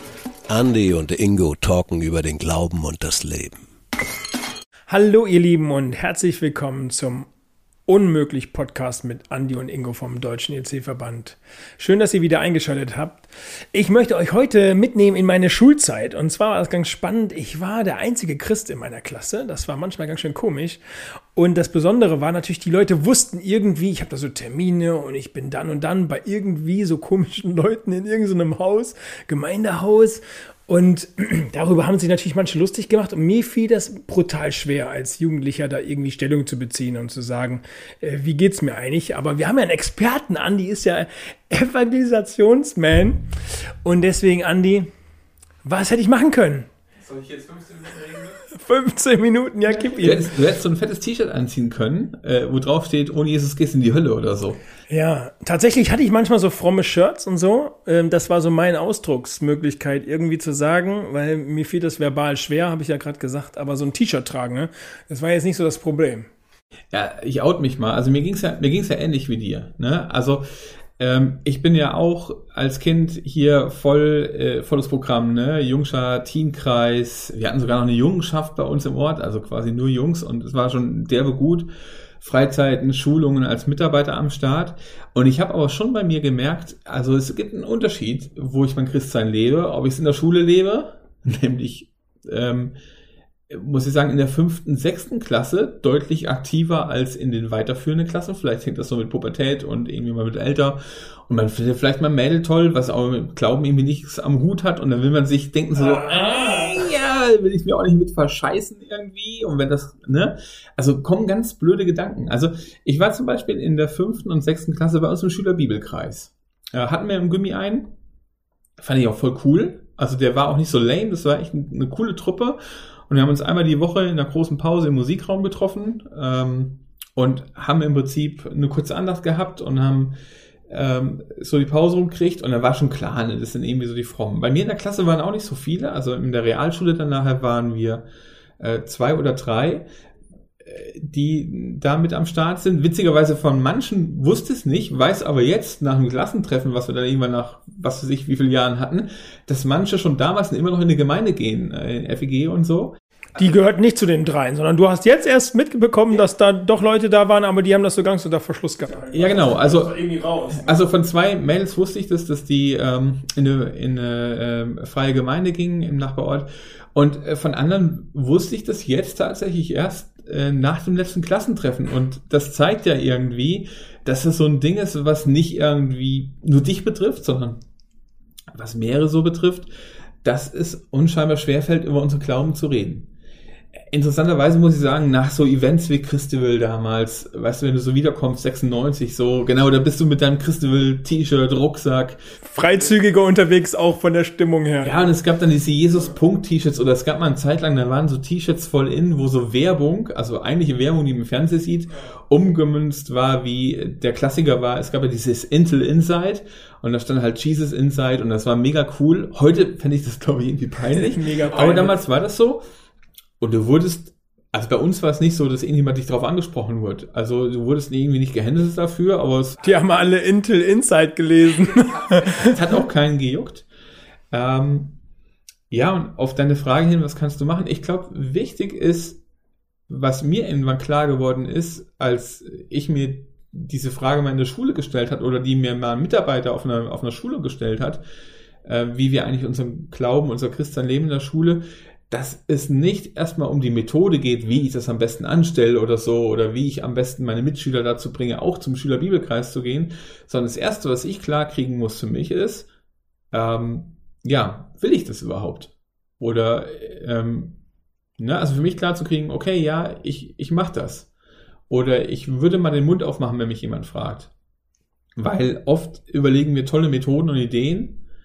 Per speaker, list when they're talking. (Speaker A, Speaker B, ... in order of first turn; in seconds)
Speaker A: 0.5-3.6
Speaker B: 4.9-7.3, 7.9-20.8, 21.3-43.3, 43.8-44.9, 45.6-46.7, 48.2-50.3, 54.9-66.3, 105.8-106.8, 153.4-160.7, 192.5-195.0, 210.9-212.0, 219.6-222.6
Speaker C: 47.1-47.3, 49.9-54.6, 66.9-70.4, 71.0-81.7, 82.2-92.7, 93.5-117.9, 118.8-130.2, 130.7-138.1, 138.6-139.8, 140.6-153.0, 159.1-177.6, 178.5-179.7, 180.2-183.1, 183.9-192.2, 194.8-212.6, 213.4-219.6, 222.2-223.7, 224.3-225.0, 225.7-229.2, 229.9-238.0, 238.7-252.7, 253.3-257.6, 258.2-261.1, 261.7-264.3, 265.2-268.0